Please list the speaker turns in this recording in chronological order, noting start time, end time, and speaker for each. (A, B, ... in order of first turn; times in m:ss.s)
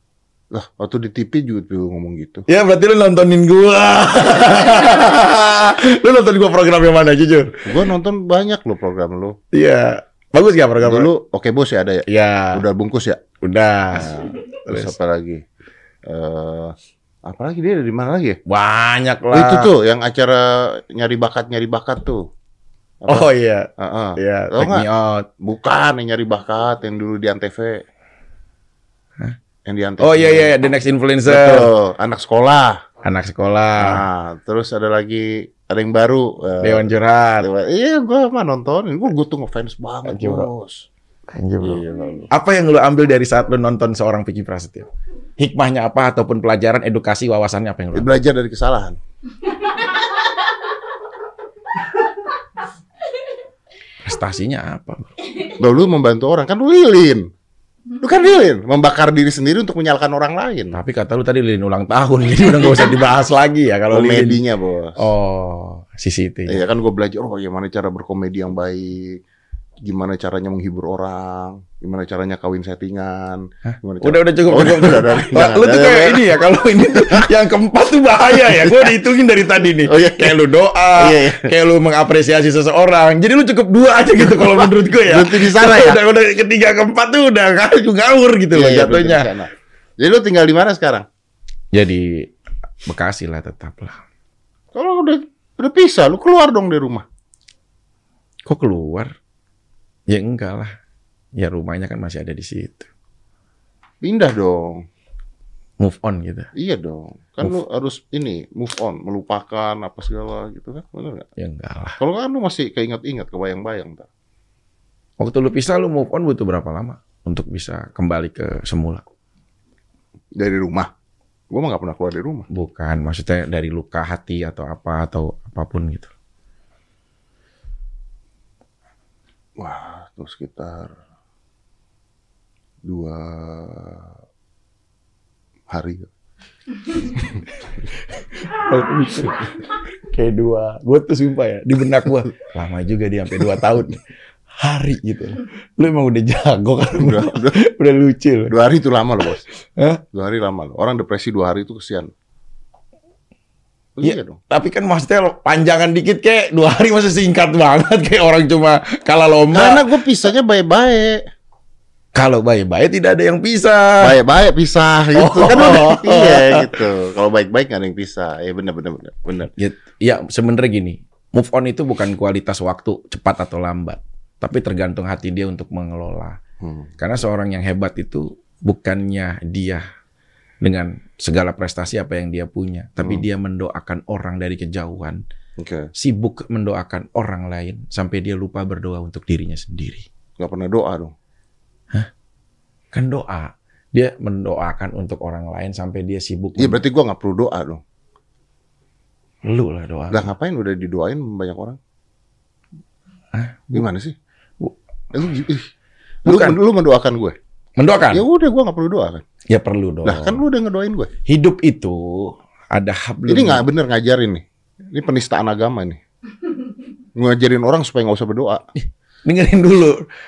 0:00.5-0:02.5 A
0:02.5-0:07.6 B
0:07.6-0:09.4 A
0:09.5-0:11.1 B
0:10.8-0:13.2 A
0:12.1-0:12.6 B
0:13.4-0:15.0 B
0:13.9-0:15.4 A
0:16.0-0:18.4 A
0:18.5-0:19.7 B
0:19.3-0:22.3 A
0:23.0-0:24.9 A
0:23.1-0:25.3 B
0:25.4-0:27.8 A
0:29.6-0:30.5 A
0:30.0-0:31.7 B
0:31.3-0:32.8 A
0:33.0-0:34.0 B
0:33.8-0:40.9 A
0:36.6-0:37.5 B
0:40.0-0:40.5 B
0:41.3-0:48.1 B
0:41.6-0:42.3 A
0:47.9-0:49.0 A
0:54.0-0:55.1 B
0:55.6-0:57.3 A
0:58.0-1:00.8 A
1:00.7-1:04.4 B
1:03.9-1:05.1 A
1:05.0-1:06.6 B
1:06.5-1:09.2 A
1:09.8-1:16.4 A
1:13.7-1:29.3 B
1:16.9-1:17.3 A
1:19.9-1:20.4 A
1:21.0-1:21.5 A
1:24.3-1:26.0 A
1:28.5-1:31.1 A
1:31.7-1:32.3 B
1:32.8-1:34.0 B
1:34.7-1:37.0 A
1:38.5-1:39.1 B
1:40.1-1:40.7 B
1:41.4-1:42.9 B
1:44.0-1:44.8 A
1:45.8-1:46.5 B
1:46.6-1:51.3 A
1:51.4-1:52.0 B
1:52.0-1:54.1 A
1:55.2-1:59.0 B
2:00.4-2:00.9 A
2:01.5-2:02.5 A
2:02.5-2:06.1 B
2:09.6-2:10.9 A
2:12.9-2:14.1 A
2:15.7-2:16.1 A
2:18.0-2:24.0 B
2:24.6-2:28.5 B
2:27.0-2:27.6 A
2:28.5-2:29.5 A
2:30.1-2:32.1 A
2:34.0-2:34.4 A
2:34.0-2:39.9 B
2:39.5-2:41.2 A
2:42.1-2:44.2 B
2:44.0-2:49.5 A
2:45.1-2:46.8 B
2:49.6-2:56.4 B
2:56.6-2:56.9 A
2:57.0-2:59.8 B
3:00.6-3:05.2 B
3:05.6-3:05.9 A
3:06.0-3:10.1 B
3:10.4-3:11.1 A
3:12.9-3:16.8 B
3:16.6-3:17.8 A
3:19.4-3:20.3 B
3:20.1-3:21.8 A
3:23.3-3:23.8 B
3:23.7-3:24.1 A
3:25.1-3:25.7 A
3:26.2-3:27.4 A
3:26.3-3:26.6 B
3:27.8-3:28.3 B
3:28.1-3:29.2 A
3:29.5-3:30.4 B
3:30.0-3:31.1 A
3:31.3-3:33.6 B
3:33.3-3:36.0 A
3:37.1-3:38.6 A
3:39.2-3:40.0 B